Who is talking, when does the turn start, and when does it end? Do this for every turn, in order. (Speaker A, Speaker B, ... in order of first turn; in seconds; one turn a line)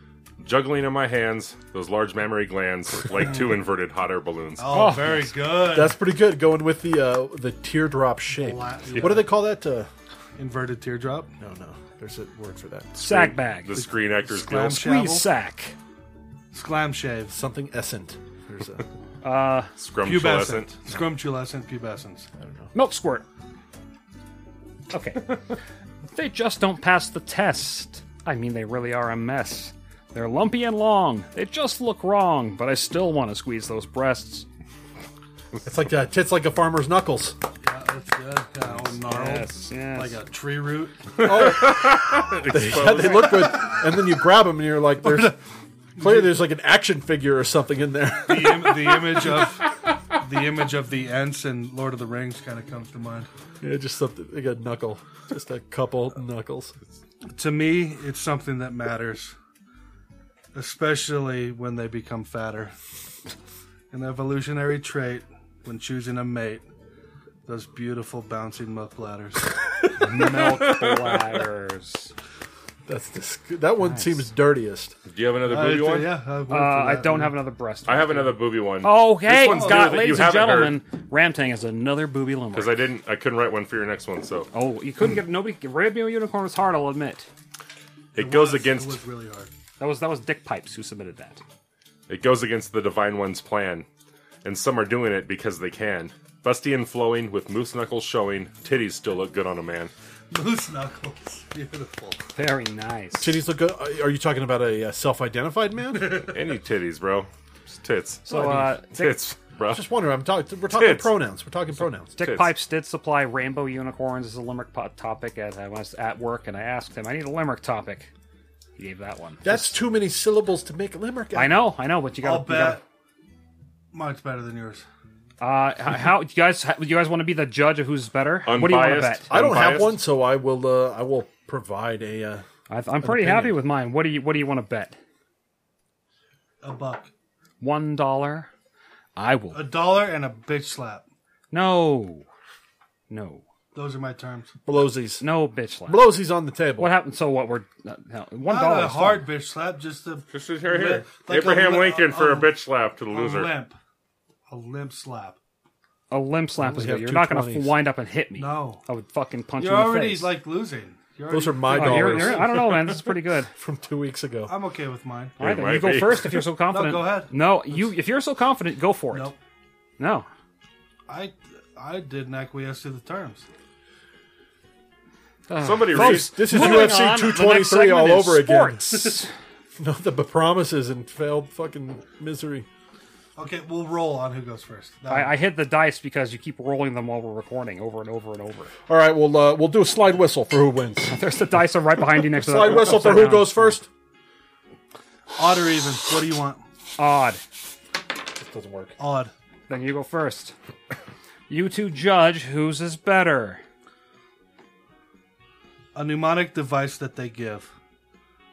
Speaker A: 0.4-4.9
Speaker B: 4.6-6.0
Speaker C: 4.7-5.4
Speaker D: 5.6-9.9
Speaker B: 8.3-9.3
Speaker B: 10.4-11.3
Speaker D: 11.4-13.3
Speaker C: 13.0-13.7
Speaker A: 13.6-14.8
Speaker B: 13.8-15.3
Speaker C: 14.7-15.8
Speaker B: 16.5-17.3
Speaker D: 17.3-18.8
Speaker C: 19.2-19.7
Speaker A: 19.8-20.8
Speaker B: 20.0-22.3
Speaker D: 22.4-22.7
Speaker C: 22.8-23.2
Speaker C: 24.9-25.4
Speaker C: 26.1-34.5
Speaker D: 35.6-37.4
Speaker B: 37.6-41.1
Speaker C: 39.0-40.2
Speaker A: 41.2-43.6
Speaker D: 41.2-45.4
Speaker D: 46.0-49.1
Speaker B: 46.0-46.4
Speaker B: 48.3-53.3
Speaker D: 53.6-56.8
Speaker B: 57.3-59.3
Speaker B: 60.5-62.7
Speaker B: 63.9-66.6
Speaker B: 67.5-69.5
Speaker C: 70.0-72.1
Speaker D: 72.9-74.9
Speaker C: 73.8-74.2
Speaker A: 75.1-76.1
Speaker B: 75.4-77.4
Speaker C: 76.5-82.8
Speaker A: 77.9-80.8
Speaker B: 79.4-80.3
Speaker A: 82.5-84.5
Speaker C: 84.5-87.3
Speaker B: 88.1-89.5
Speaker A: 88.1-89.0
Speaker C: 89.8-91.4
Speaker A: 92.1-93.9
Speaker A: 94.4-99.9
Speaker B: 100.3-102.2
Speaker C: 102.4-103.4
Speaker D: 103.2-106.3
Speaker A: 106.3-109.8
Speaker C: 108.2-109.2
Speaker D: 109.7-112.1
Speaker A: 110.7-111.2
Speaker C: 112.2-118.1
Speaker A: 112.2-112.5
Speaker C: 118.8-119.8
Speaker D: 119.4-121.7
Speaker C: 121.3-122.8
Speaker B: 122.2-122.8
Speaker B: 123.9-124.8
Speaker C: 125.4-129.3
Speaker A: 128.4-130.0
Speaker D: 129.3-132.4
Speaker C: 132.7-134.9
Speaker D: 133.0-133.6
Speaker B: 136.6-137.1
Speaker C: 137.6-138.5
Speaker C: 139.2-139.7
Speaker B: 139.5-141.0
Speaker C: 141.5-142.2
Speaker C: 143.1-143.4
Speaker B: 143.7-144.5
Speaker D: 144.7-145.2
Speaker C: 145.2-146.1
Speaker D: 145.9-146.9
Speaker C: 146.8-149.3
Speaker B: 148.5-152.5
Speaker A: 150.3-153.5
Speaker B: 153.1-153.8
Speaker B: 154.5-155.4
Speaker C: 156.1-160.3
Speaker D: 156.6-157.8
Speaker B: 158.4-158.8
Speaker B: 159.6-162.7
Speaker D: 161.3-163.0
Speaker C: 161.7-163.5
Speaker D: 163.6-164.5
Speaker B: 164.5-165.4
Speaker A: 165.4-166.4
Speaker C: 165.4-169.3
Speaker D: 165.6-166.4
Speaker B: 166.7-167.3
Speaker B: 169.1-169.4
Speaker C: 170.0-170.3
Speaker B: 171.1-173.4
Speaker C: 175.5-179.3
Speaker A: 175.6-176.9
Speaker D: 175.9-179.2
Speaker D: 179.8-182.7
Speaker B: 183.4-185.4
Speaker C: 185.1-188.7
Speaker D: 188.9-191.1
Speaker C: 191.1-193.8
Speaker D: 192.3-193.9
Speaker B: 195.3-196.6
Speaker C: 197.0-197.4
Speaker D: 198.3-199.0
Speaker B: 199.0-199.3
Speaker C: 199.7-200.5
Speaker C: 201.5-203.6
Speaker B: 205.9-207.7